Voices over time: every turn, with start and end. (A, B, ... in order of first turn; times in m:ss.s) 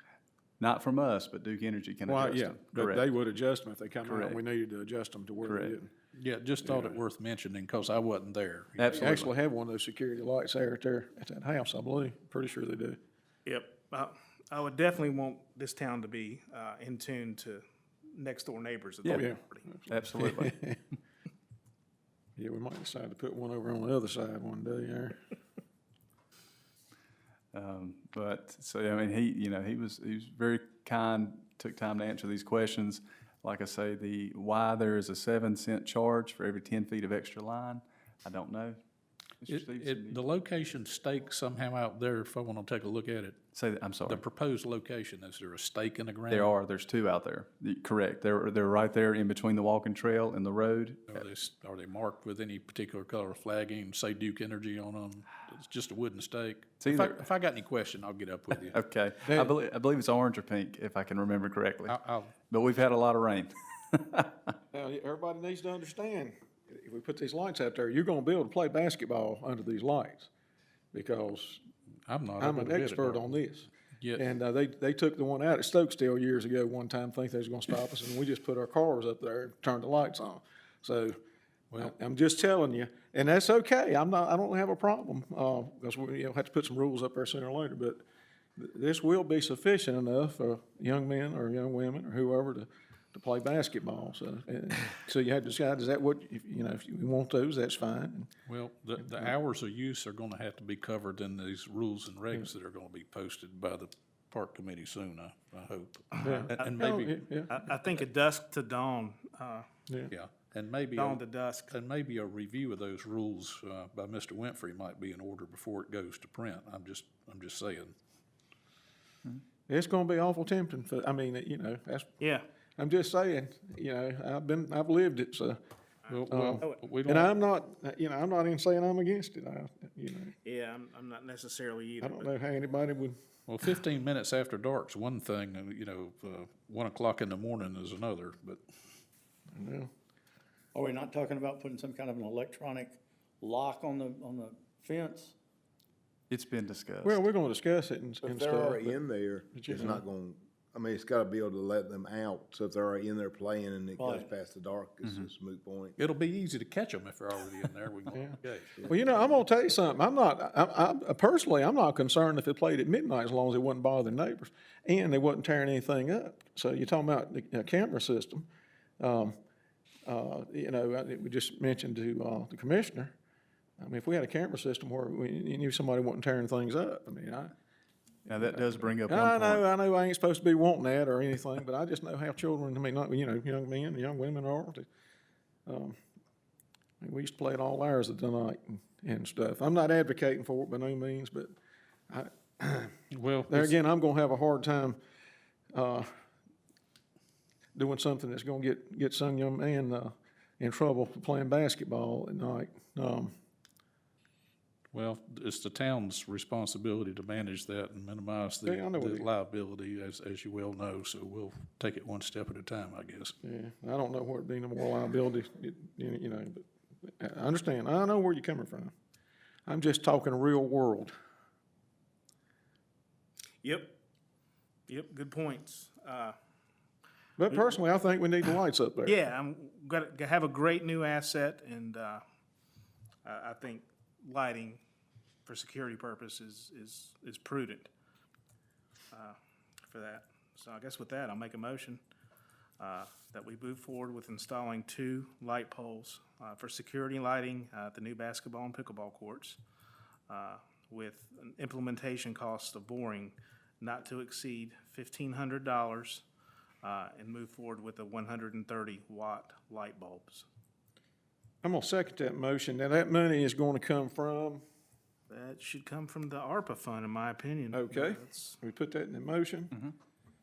0:00.6-0:03.1 A
0:02.0-0:05.9 B
0:04.0-0:04.4 A
0:05.4-0:05.8 A
0:06.2-0:09.3 C
0:06.6-0:07.0 B
0:08.8-0:09.2 A
0:08.9-0:13.0 B
0:13.4-0:19.6 D
0:19.1-0:20.8 B
0:19.9-0:20.6 A
0:22.4-0:25.2 B
0:27.5-0:38.8 A
0:39.4-0:40.2 A
0:39.5-0:43.4 C
0:43.5-0:44.2 A
0:44.1-0:46.6 C
0:46.3-0:51.2 A
0:51.1-0:58.8 C
0:56.8-0:57.2 A
0:58.7-1:02.0 A
0:59.2-0:59.5 B
1:01.8-1:02.3 C
1:02.5-1:04.3 A
1:04.7-1:10.3 B
1:10.9-1:11.6 B
1:12.1-1:13.2 C
1:12.4-1:21.2 B
1:21.7-1:28.0 B
1:28.6-1:38.3 B
1:38.5-1:47.1 C
1:39.0-1:39.3 B
1:46.1-1:46.8 D
1:46.2-1:47.6 B
1:47.5-1:49.7 D
1:50.1-1:58.0 C
1:50.9-1:51.7 D
1:59.7-2:02.2 B
2:02.8-2:05.6 B
2:06.1-2:06.8 D
2:06.1-2:07.3 C
2:06.3-2:10.3 B
2:10.4-2:12.3 D
2:12.0-2:13.2 B
2:13.5-2:18.6 C
2:19.5-2:19.9 B
2:20.7-2:25.3 E
2:26.3-2:27.2 A
2:27.0-2:29.0 B
2:28.2-2:36.0 F
2:29.5-2:30.0 B
2:34.0-2:34.3 E
2:36.0-2:38.9 C
2:38.1-2:48.5 B
2:49.0-2:49.4 B
2:50.0-2:53.1 B
2:53.8-2:57.5 B
2:58.3-2:59.6 A
2:58.5-3:04.8 B
3:05.6-3:06.0 B
3:07.0-3:11.5 B
3:12.1-3:12.9 B
3:13.1-3:13.7 C
3:13.5-3:15.0 B
3:15.7-3:16.1 B
3:17.7-3:23.3 B
3:24.9-3:33.3 C
3:28.6-3:29.3 B
3:33.4-3:38.9 B
3:39.6-3:41.1 B
3:43.6-3:43.9 D
3:44.9-3:46.4 D
3:47.4-3:49.2 B
3:47.5-3:47.8 D
3:49.0-3:52.2 D
3:53.2-3:54.8 D
3:55.4-3:57.9 D
3:59.1-4:02.0 D
4:02.8-4:09.6 D
4:10.3-4:16.2 D
4:16.8-4:20.4 D
4:21.6-4:24.6 B
4:25.3-4:28.6 D
4:27.7-4:29.7 B